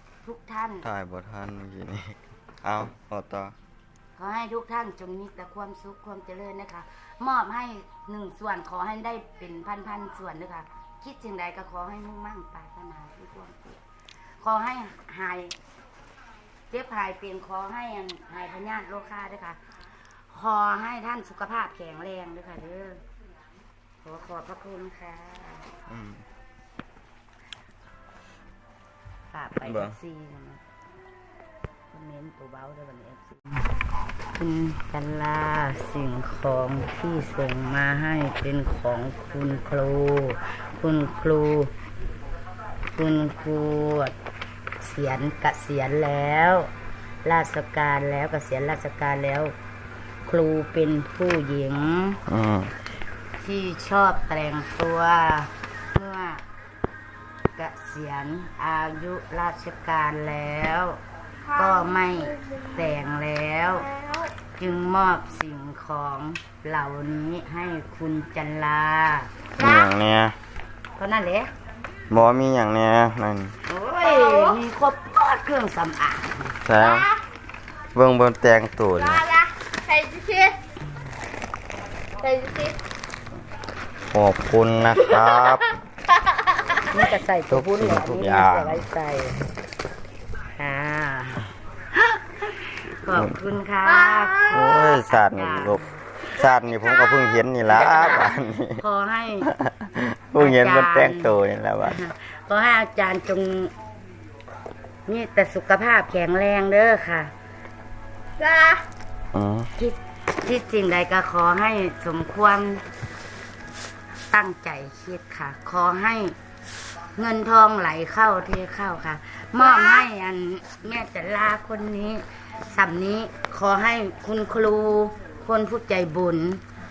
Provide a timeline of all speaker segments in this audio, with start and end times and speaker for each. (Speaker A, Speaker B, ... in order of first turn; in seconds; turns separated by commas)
Speaker A: 0.2-0.8, Speaker B: 0.8-3.5, Speaker A: 4.2-13.8, Speaker A: 14.4-15.6, Speaker A: 16.7-19.6, Speaker A: 20.3-23.0, Speaker A: 24.0-25.6, Speaker B: 25.9-26.2, Speaker A: 29.3-30.6, Speaker B: 29.6-30.0, Speaker A: 31.9-33.7, Speaker A: 34.3-41.7, Speaker A: 43.0-44.1, Speaker A: 44.8-46.7, Speaker A: 47.2-49.5, Speaker A: 50.2-52.2, Speaker B: 52.3-52.7, Speaker A: 53.4-56.4, Speaker A: 57.5-61.0, Speaker C: 61.5-62.8, Speaker A: 61.5-63.9, Speaker C: 63.9-64.3, Speaker A: 64.6-69.3, Speaker C: 69.6-69.9, Speaker B: 69.6-70.3, Speaker A: 71.0-71.5, Speaker B: 72.1-73.5, Speaker A: 73.7-76.6, Speaker C: 74.1-74.6, Speaker B: 76.6-77.1, Speaker C: 76.8-77.2, Speaker B: 77.9-79.2, Speaker C: 79.0-80.6, Speaker C: 82.2-82.8, Speaker B: 84.1-85.7, Speaker C: 85.1-85.6, Speaker C: 86.1-86.8, Speaker A: 86.8-89.5, Speaker B: 87.5-88.8, Speaker A: 90.5-91.5, Speaker A: 92.1-96.0, Speaker B: 94.5-95.8, Speaker B: 96.3-98.8, Speaker A: 97.7-99.5, Speaker B: 99.4-102.0, Speaker A: 100.3-103.7, Speaker A: 105.1-107.3, Speaker C: 108.4-108.8, Speaker B: 109.3-109.7, Speaker A: 109.8-112.8, Speaker A: 114.3-116.3, Speaker A: 117.2-126.6, Speaker C: 119.6-120.0